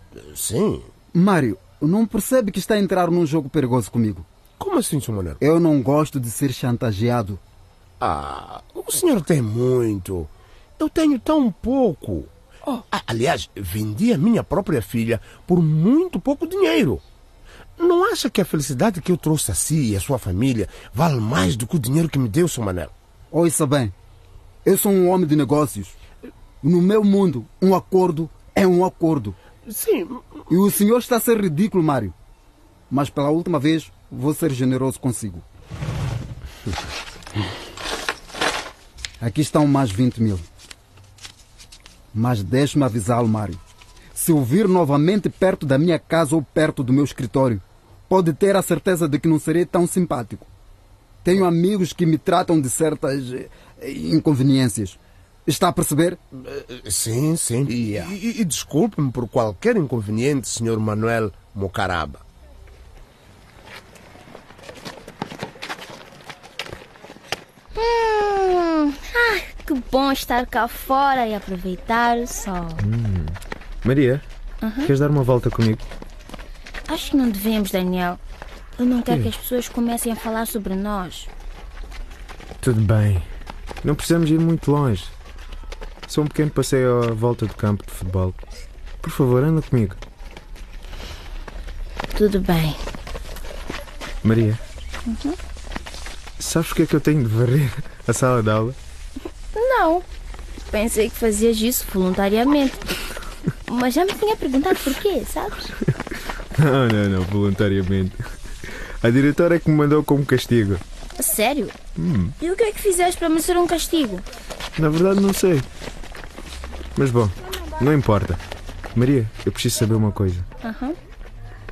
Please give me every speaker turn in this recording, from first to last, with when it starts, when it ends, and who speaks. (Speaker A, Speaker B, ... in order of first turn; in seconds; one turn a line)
Speaker A: 0.3-0.9
Speaker B: 1.1-4.3
Speaker A: 4.6-5.4
Speaker B: 5.4-7.4
Speaker A: 8.0-12.3
Speaker A: 12.9-17.0
Speaker A: 17.8-22.9
Speaker B: 23.3-23.9
Speaker B: 24.6-26.0
Speaker B: 26.6-29.4
Speaker A: 29.7-30.2
Speaker B: 30.5-32.1
Speaker B: 32.9-35.4
Speaker B: 39.2-40.5
Speaker B: 42.1-43.6
Speaker B: 44.1-50.5
Speaker B: 51.2-56.2
Speaker A: 56.5-62.2
Speaker C: 67.8-72.9
Speaker D: 72.8-74.2
Speaker C: 74.6-74.9
Speaker D: 74.8-75.8
Speaker C: 76.9-78.2
Speaker C: 78.8-81.3
Speaker D: 82.6-83.3
Speaker D: 83.8-85.1
Speaker D: 86.1-88.4
Speaker D: 89.0-90.0
Speaker C: 92.2-92.8
Speaker D: 94.2-94.6
Speaker C: 95.1-95.4
Speaker D: 96.4-98.8
Speaker C: 99.5-100.0
Speaker C: 100.7-102.9
Speaker C: 103.7-105.7
Speaker D: 106.6-108.2
Speaker D: 109.0-110.8
Speaker C: 111.2-111.8
Speaker D: 112.0-112.3
Speaker C: 112.4-114.2
Speaker D: 114.8-115.7
Speaker D: 117.0-118.4
Speaker D: 119.0-120.5
Speaker C: 120.6-121.0